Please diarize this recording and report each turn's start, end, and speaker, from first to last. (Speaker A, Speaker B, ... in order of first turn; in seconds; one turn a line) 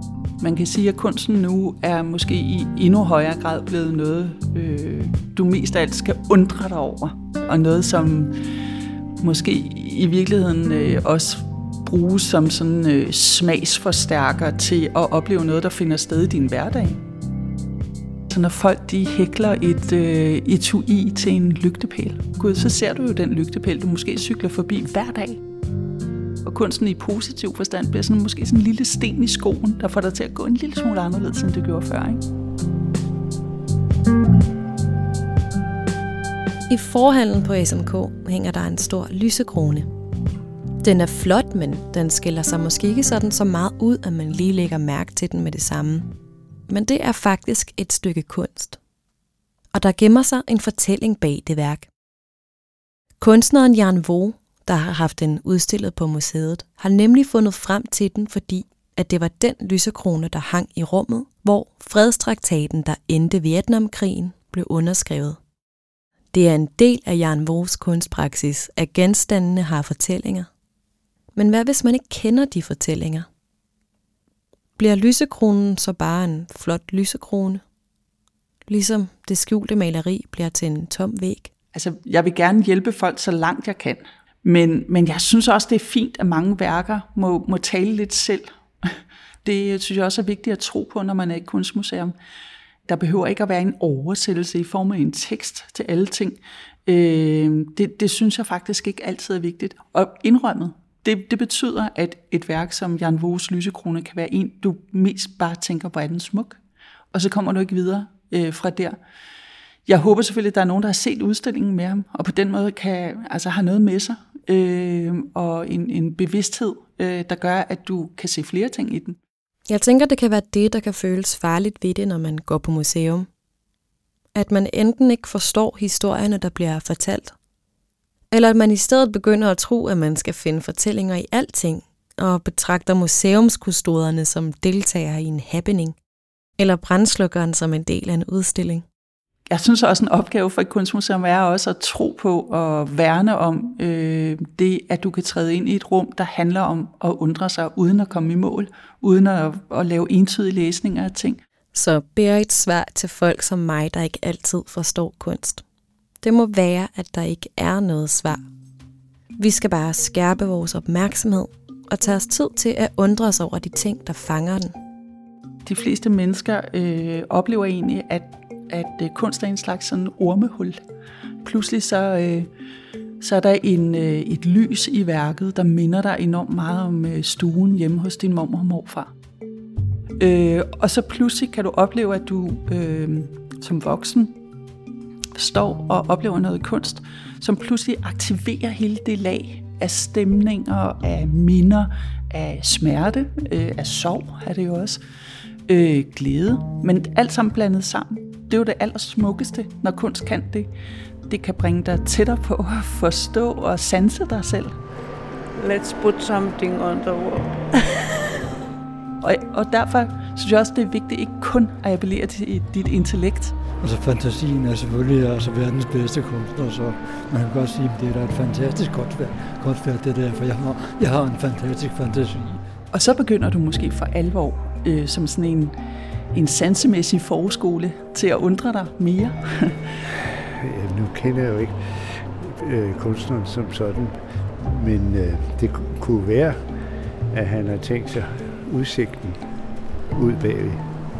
Speaker A: 0.4-8.3
Speaker A: 9.2-17.0
Speaker A: 18.3-25.4
Speaker A: 26.4-32.2
Speaker B: 36.7-39.9
Speaker B: 40.8-46.1
Speaker B: 46.7-48.8
Speaker B: 49.7-51.9
Speaker B: 53.2-65.4
Speaker B: 66.3-70.5
Speaker B: 71.3-73.3
Speaker B: 74.8-77.6
Speaker B: 78.7-81.5
Speaker A: 81.7-92.1
Speaker A: 92.8-106.6
Speaker A: 107.1-109.0
Speaker A: 109.9-119.2
Speaker B: 119.7-123.3
Speaker B: 124.3-127.3
Speaker B: 128.3-136.0
Speaker B: 136.6-138.8
Speaker A: 139.5-151.4
Speaker B: 151.7-155.6
Speaker B: 156.2-158.4
Speaker B: 159.4-164.8
Speaker A: 165.7-170.8
Speaker A: 171.4-172.5
Speaker A: 173.2-179.1
Speaker A: 180.2-184.3
Speaker A: 185.3-195.0
Speaker A: 195.7-200.7
Speaker A: 201.3-204.7
Speaker C: 205.6-207.6
Speaker A: 209.2-213.5
Speaker D: 213.8-222.6
Speaker A: 222.9-225.7
Speaker A: 226.3-230.0
Speaker E: 230.4-236.7
Speaker E: 237.3-239.4
Speaker E: 240.1-240.8